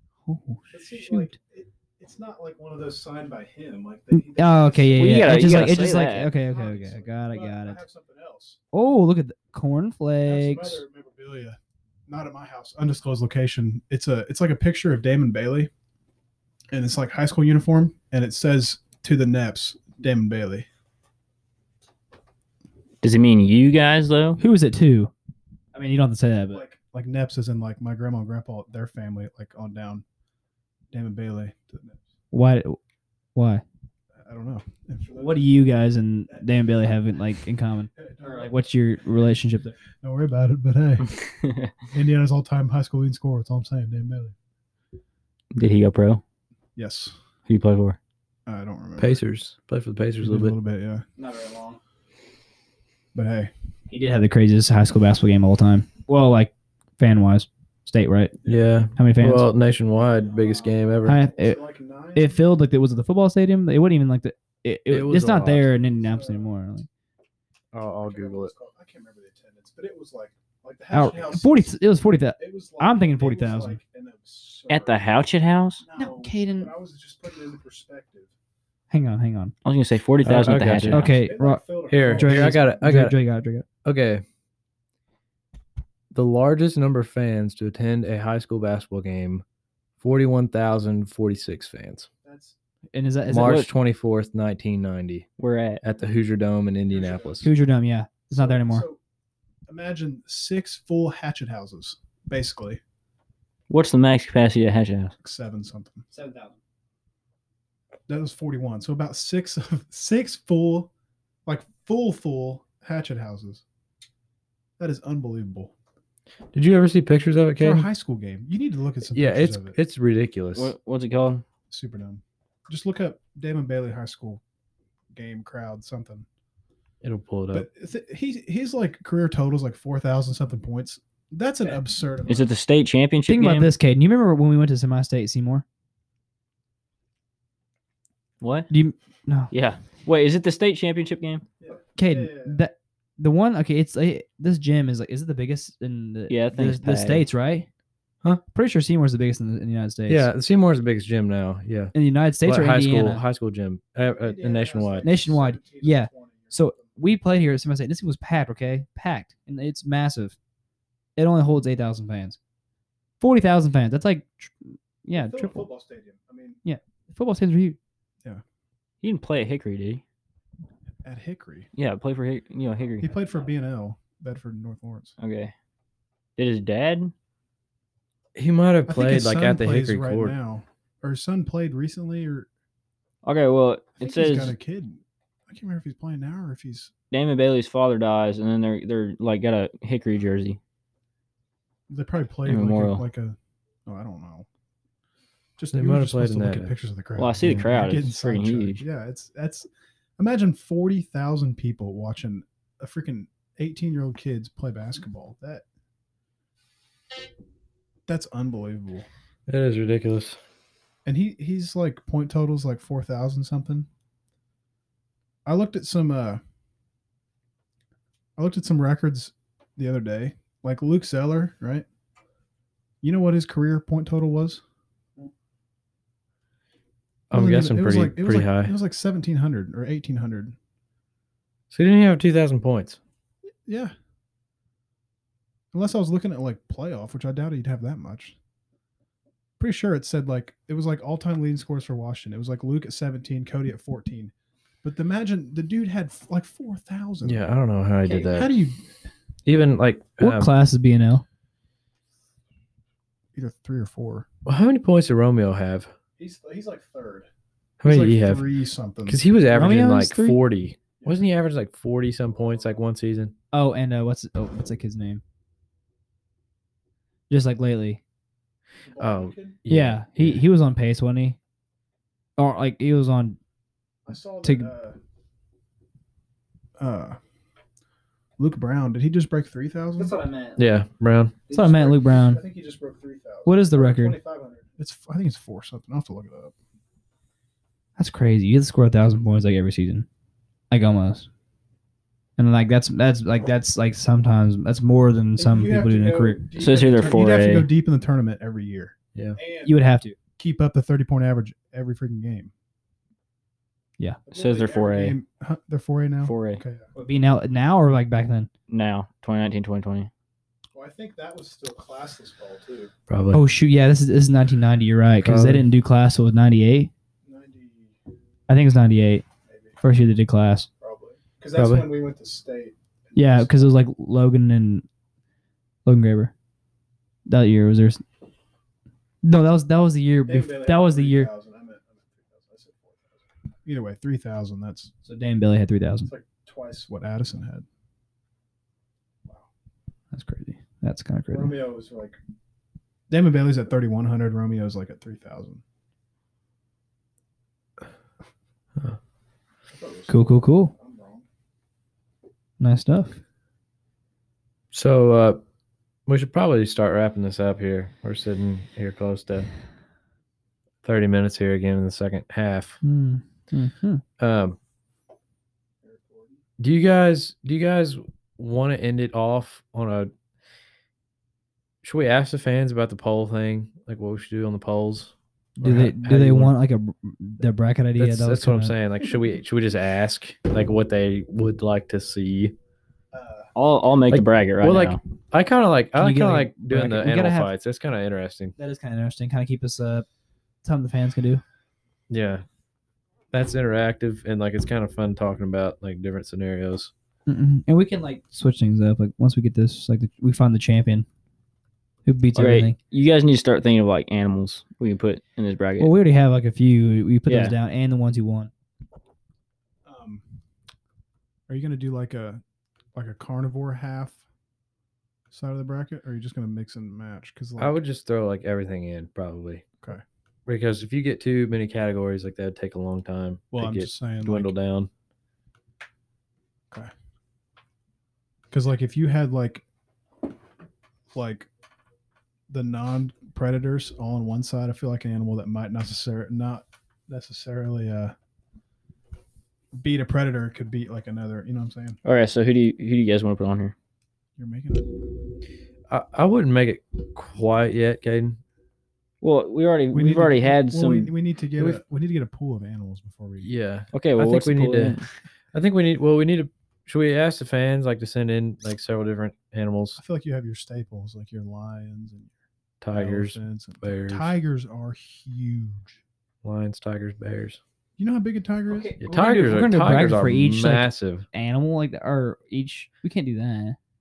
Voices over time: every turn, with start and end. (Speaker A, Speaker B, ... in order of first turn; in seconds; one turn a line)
Speaker A: 0.3-1.3
Speaker B: 0.7-8.6
Speaker A: 4.1-7.8
Speaker C: 5.0-6.3
Speaker A: 8.7-10.8
Speaker B: 10.2-15.7
Speaker B: 16.7-20.7
Speaker C: 23.0-24.4
Speaker A: 24.4-25.1
Speaker A: 25.7-26.6
Speaker B: 26.5-30.1
Speaker B: 30.9-32.0
Speaker A: 32.3-32.8
Speaker A: 33.4-33.6
Speaker B: 34.2-35.6
Speaker A: 35.2-39.8
Speaker B: 36.3-36.9
Speaker B: 38.0-38.7
Speaker B: 40.0-41.1
Speaker C: 41.3-41.7
Speaker B: 41.9-44.4
Speaker C: 45.5-46.2
Speaker B: 46.8-47.2
Speaker C: 47.5-48.0
Speaker B: 48.5-49.2
Speaker D: 49.0-50.6
Speaker B: 50.2-51.1
Speaker A: 51.2-51.8
Speaker B: 53.1-53.5
Speaker A: 53.9-58.4
Speaker B: 58.4-58.9
Speaker D: 58.5-61.2
Speaker A: 59.0-59.5
Speaker A: 61.0-61.6
Speaker B: 61.1-62.5
Speaker A: 62.1-66.9
Speaker D: 64.9-65.7
Speaker B: 65.7-66.5
Speaker D: 67.7-68.5
Speaker B: 68.0-71.8
Speaker A: 70.9-73.8
Speaker B: 72.4-75.0
Speaker C: 74.7-75.8
Speaker B: 75.8-78.3
Speaker A: 76.0-76.7
Speaker A: 78.9-79.5
Speaker C: 79.7-81.2
Speaker D: 80.2-81.0
Speaker A: 80.9-83.7
Speaker B: 81.1-82.7
Speaker D: 81.9-83.2
Speaker D: 83.8-84.2
Speaker D: 86.1-89.4
Speaker D: 90.0-92.1
Speaker B: 92.2-92.6
Speaker A: 92.9-93.6
Speaker D: 93.3-95.3
Speaker C: 93.4-93.7
Speaker C: 95.4-95.8
Speaker D: 95.8-97.5
Speaker B: 96.9-97.5
Speaker A: 97.4-98.9
Speaker B: 98.3-99.0
Speaker B: 99.7-102.8
Speaker C: 103.7-105.1
Speaker B: 105.2-106.1
Speaker A: 106.1-106.6
Speaker B: 108.1-110.9
Speaker B: 111.5-113.6
Speaker B: 114.8-115.7
Speaker D: 116.5-117.9
Speaker B: 117.6-119.8
Speaker D: 119.1-120.7
Speaker C: 120.5-121.4
Speaker B: 121.7-124.4
Speaker B: 125.1-126.3
Speaker D: 127.0-127.7
Speaker B: 127.5-132.5
Speaker C: 132.3-133.7
Speaker A: 133.3-135.6
Speaker C: 138.4-138.7
Speaker A: 138.7-139.5
Speaker C: 139.5-141.4
Speaker B: 141.6-142.6
Speaker A: 142.0-147.7
Speaker C: 146.3-147.2
Speaker A: 148.5-150.3
Speaker D: 150.1-155.2
Speaker A: 151.9-153.2
Speaker B: 154.1-156.9
Speaker A: 155.0-160.4
Speaker A: 161.2-162.4
Speaker A: 163.2-165.6
Speaker B: 165.1-166.6
Speaker A: 166.6-167.8
Speaker C: 169.0-170.0
Speaker B: 171.0-171.7
Speaker C: 171.8-173.1
Speaker B: 173.0-175.2
Speaker C: 175.2-175.5
Speaker C: 176.4-177.1
Speaker D: 178.3-180.3
Speaker B: 178.9-182.5
Speaker C: 183.2-184.6
Speaker B: 184.0-186.9
Speaker C: 187.1-190.6
Speaker B: 191.9-194.5
Speaker C: 192.5-193.0
Speaker B: 195.6-205.6
Speaker D: 195.7-196.7
Speaker C: 197.2-198.8
Speaker B: 208.1-209.1
Speaker D: 209.5-210.4
Speaker B: 211.1-213.9
Speaker B: 215.4-216.4
Speaker B: 218.4-221.9
Speaker B: 223.0-224.6
Speaker D: 227.3-228.7
Speaker B: 227.3-230.6
Speaker D: 231.7-233.0
Speaker B: 233.7-233.9
Speaker B: 235.7-238.4
Speaker B: 239.6-244.3
Speaker B: 244.8-247.5
Speaker D: 247.2-248.5
Speaker B: 248.1-248.8
Speaker D: 249.5-250.5
Speaker A: 250.2-251.2
Speaker B: 253.3-254.3
Speaker D: 254.4-255.9
Speaker B: 256.2-257.3
Speaker D: 257.8-258.4
Speaker B: 257.8-259.2
Speaker D: 259.1-263.3
Speaker A: 259.5-260.4
Speaker B: 261.0-261.3
Speaker B: 262.2-262.9
Speaker A: 263.5-265.2
Speaker A: 267.3-268.0
Speaker B: 268.9-269.6
Speaker D: 269.0-270.4
Speaker A: 269.7-271.4
Speaker A: 272.4-273.4
Speaker B: 274.1-275.0
Speaker A: 274.4-274.7
Speaker B: 276.8-277.2
Speaker B: 278.4-280.2
Speaker A: 280.0-280.6
Speaker D: 280.6-281.4
Speaker A: 281.5-282.4
Speaker B: 281.5-286.5
Speaker A: 283.5-284.2
Speaker A: 288.0-290.1
Speaker A: 290.7-291.3
Speaker A: 292.4-296.4
Speaker B: 295.4-299.8
Speaker C: 296.6-297.7
Speaker A: 299.6-300.2
Speaker B: 300.4-302.5
Speaker B: 304.3-306.9
Speaker C: 304.3-305.2
Speaker C: 306.2-306.6
Speaker A: 307.0-308.5
Speaker C: 308.7-310.1
Speaker B: 310.7-312.9
Speaker D: 313.1-313.4
Speaker A: 313.3-316.9
Speaker D: 315.2-315.7
Speaker B: 317.2-318.0
Speaker A: 318.5-319.2
Speaker B: 319.5-319.8
Speaker A: 319.8-320.7
Speaker B: 320.8-323.8
Speaker D: 321.6-321.9
Speaker A: 323.1-324.9
Speaker A: 325.9-326.3
Speaker A: 327.3-328.0
Speaker A: 329.2-331.3
Speaker B: 330.3-334.9
Speaker A: 335.0-336.1
Speaker B: 336.1-337.7
Speaker A: 340.1-341.6
Speaker B: 341.3-342.2
Speaker B: 343.1-345.6
Speaker B: 349.7-351.3
Speaker A: 350.1-350.7
Speaker A: 352.6-353.2
Speaker D: 354.7-355.4
Speaker D: 356.1-359.5
Speaker D: 360.8-362.8
Speaker A: 362.8-364.0
Speaker D: 364.2-364.6
Speaker B: 365.8-366.4
Speaker D: 366.6-370.1
Speaker D: 371.8-376.6
Speaker A: 375.6-378.8
Speaker D: 378.0-382.6
Speaker B: 383.1-383.5
Speaker C: 383.6-385.0
Speaker D: 384.1-388.6
Speaker A: 386.0-387.5
Speaker A: 388.6-390.1
Speaker A: 390.6-391.4
Speaker D: 392.1-392.4
Speaker D: 393.3-396.9
Speaker A: 397.3-401.1
Speaker A: 402.1-402.8
Speaker C: 402.4-405.9
Speaker A: 405.8-408.5
Speaker C: 407.3-407.6
Speaker B: 409.9-410.2
Speaker B: 411.5-412.4
Speaker B: 412.9-414.2
Speaker B: 415.3-417.8
Speaker D: 417.6-419.6
Speaker D: 420.5-424.9
Speaker B: 423.5-424.5
Speaker B: 428.5-429.6
Speaker B: 431.1-431.5
Speaker B: 432.5-438.1
Speaker B: 439.7-442.0
Speaker C: 442.1-443.8
Speaker B: 444.4-444.9
Speaker D: 445.9-448.4
Speaker C: 449.2-451.1
Speaker B: 449.9-453.5
Speaker D: 453.4-455.0
Speaker C: 453.9-455.1
Speaker D: 455.5-460.0
Speaker B: 460.0-466.0
Speaker D: 462.8-464.3
Speaker D: 466.4-467.6
Speaker B: 468.0-469.0
Speaker A: 468.7-473.8
Speaker D: 469.0-471.3